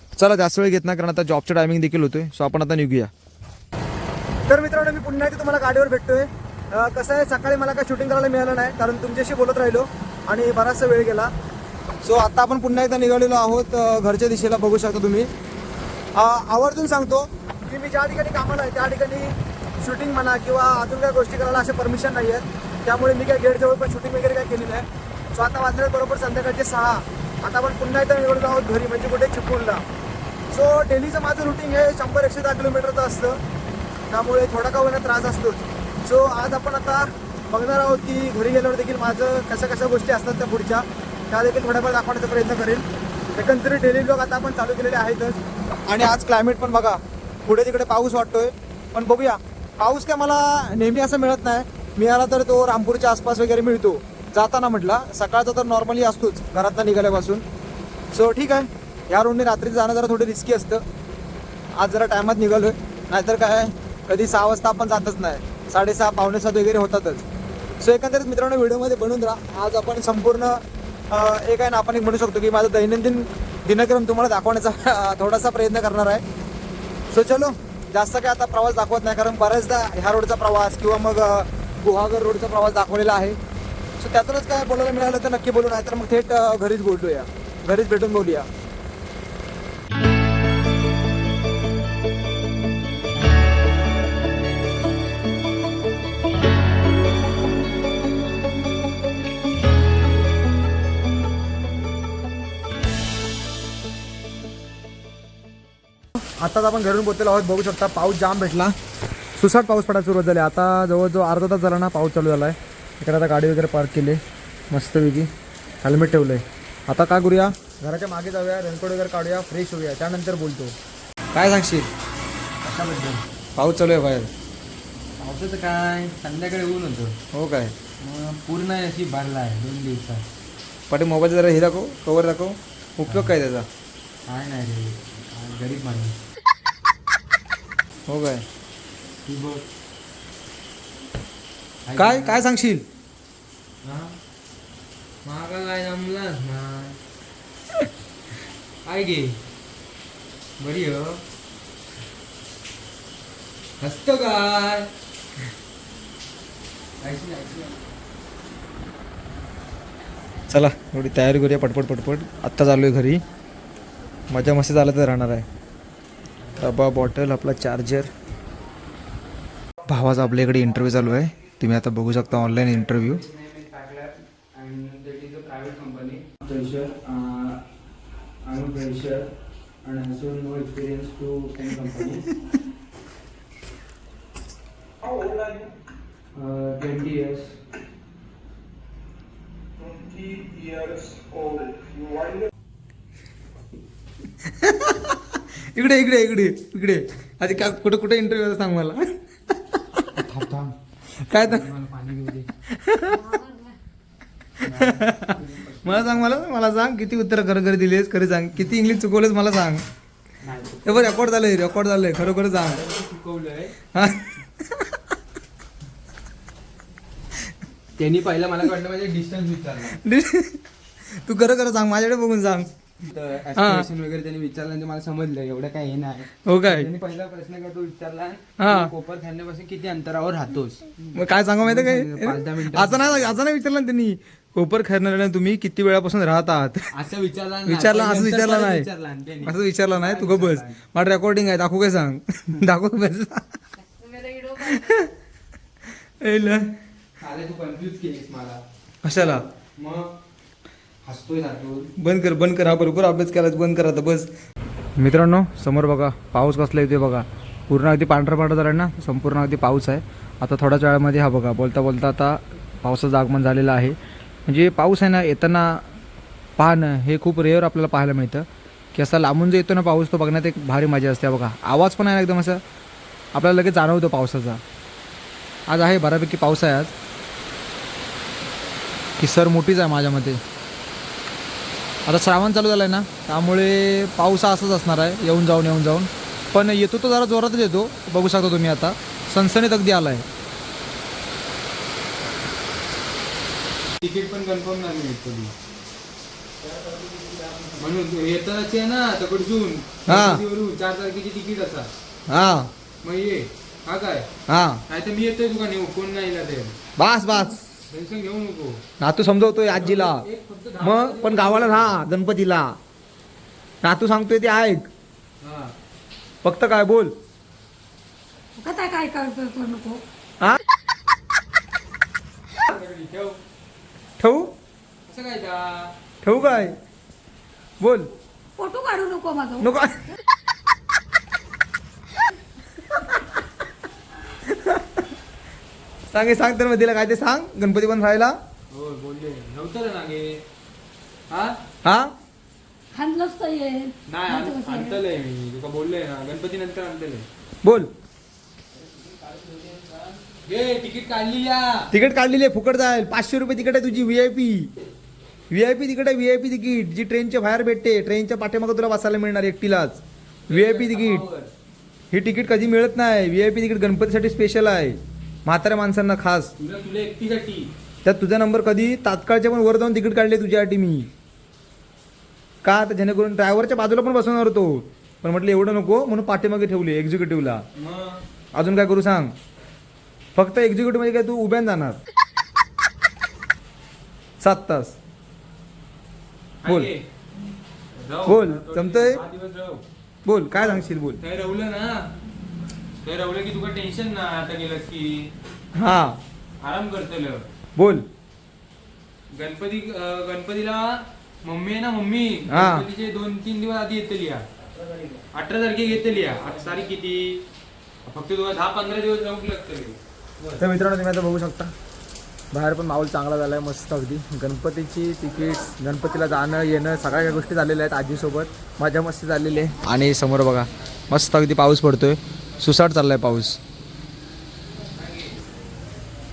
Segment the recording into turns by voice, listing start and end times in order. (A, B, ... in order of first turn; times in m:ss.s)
0:00.2-0:03.1 A
0:04.5-0:11.3 A
0:12.0-0:15.3 A
0:16.2-0:29.8 A
0:30.5-0:33.4 A
0:34.1-0:57.4 A
0:58.1-1:00.8 A
1:01.8-1:07.2 A
1:07.8-1:10.6 A
1:11.1-1:16.2 A
1:17.1-1:23.4 A
1:24.0-1:28.5 A
1:46.4-1:48.7 A
1:49.4-1:54.2 A
1:54.7-1:55.3 A
1:55.8-2:00.8 A
2:01.3-2:01.9 A
2:02.6-2:03.2 B
2:03.6-2:04.3 A
2:05.2-2:07.2 B
2:07.3-2:07.8 A
2:08.0-2:10.2 B
2:10.9-2:13.7 A
2:13.1-2:13.3 B
2:14.3-2:16.2 B
2:18.1-2:18.4 A
2:19.3-2:19.7 B
2:21.9-2:22.4 B
2:22.0-2:22.8 A
2:23.8-2:24.2 B
2:25.2-2:27.0 B
2:28.9-2:29.4 B
2:30.6-2:31.2 B
2:33.8-2:34.9 B
2:37.0-2:37.9 B
2:40.5-2:43.2 A
2:44.3-2:45.5 A
2:46.6-2:48.1 A
2:49.9-2:53.2 A
2:52.3-2:57.6 B
2:58.4-2:59.3 B
2:59.8-3:02.3 B
3:05.1-3:05.5 B
3:06.4-3:07.6 B
3:09.9-3:10.8 B
3:14.5-3:19.1 A
3:20.1-3:20.8 B
3:21.3-3:21.7 A
3:21.4-3:22.5 B
3:22.7-3:23.4 A
3:23.3-3:23.7 C
3:24.6-3:26.3 B
3:24.6-3:29.8 A
3:30.4-3:31.3 B
3:30.8-3:32.8 A
3:32.6-3:33.8 B
3:33.9-3:34.9 A
3:38.0-3:40.0 B
3:40.0-3:40.6 A
3:41.2-3:42.7 A
3:43.0-3:53.4 B
3:43.6-3:43.9 A
3:46.5-3:46.9 A
3:48.6-3:48.9 A
3:51.1-3:56.8 A
3:56.9-4:00.8 B
3:57.7-3:58.9 A
3:59.4-4:03.5 A
4:04.4-4:05.1 A
4:06.2-4:06.7 A
4:07.2-4:08.6 B
4:09.0-4:09.4 A
4:09.8-4:10.1 B
4:11.0-4:11.9 B
4:12.0-4:14.3 A
4:15.0-4:24.0 A
4:24.5-4:25.8 A
4:26.6-4:32.6 A
4:33.3-4:34.6 A
4:35.7-4:36.9 A
4:39.2-4:40.4 A
4:42.1-4:50.2 A
4:54.0-4:55.5 B
4:56.9-5:01.9 B
5:00.1-5:00.4 A
5:02.3-5:02.7 A
5:03.0-5:04.3 B
5:04.5-5:04.8 A
5:04.9-5:06.8 B
5:07.0-5:07.6 A
5:07.9-5:08.8 B
5:09.0-5:10.2 A
5:09.7-5:12.0 B
5:10.8-5:12.8 A
5:13.8-5:14.9 A
5:15.4-5:15.7 B
5:16.4-5:17.1 A
5:18.6-5:20.0 C
5:22.6-5:23.4 B
5:24.2-5:24.5 A
5:25.1-5:26.7 B
5:26.2-5:26.8 A
5:27.8-5:28.1 A
5:28.6-5:29.7 C
5:29.6-5:30.0 A
5:34.5-5:34.8 A
5:36.1-5:38.3 A
5:38.7-5:40.4 B
5:41.3-5:41.6 B
5:41.8-5:42.1 A
5:42.9-5:45.0 C
5:44.1-5:47.3 B
5:47.6-5:47.9 A
5:49.0-5:51.9 B
5:51.9-5:54.7 A
5:55.5-6:01.2 A
6:00.5-6:01.5 B
6:02.1-6:06.5 A
6:06.6-6:07.7 B
6:08.0-6:11.1 A
6:12.6-6:17.6 A
6:17.8-6:18.2 B
6:18.5-6:19.3 A
6:20.4-6:22.0 A
6:24.4-6:25.0 A
6:26.6-6:27.0 B
6:26.6-6:26.9 A
6:28.0-6:29.8 B
6:28.3-6:29.2 A
6:30.2-6:31.2 A
6:30.5-6:32.1 B
6:33.0-6:35.3 B
6:35.8-6:36.2 A
6:36.6-6:37.4 B
6:37.8-6:38.0 A
6:39.3-6:44.4 B
6:42.5-6:42.9 A
6:45.0-6:47.4 B
6:48.1-6:50.6 B
6:50.6-6:51.7 A
6:52.5-7:03.6 A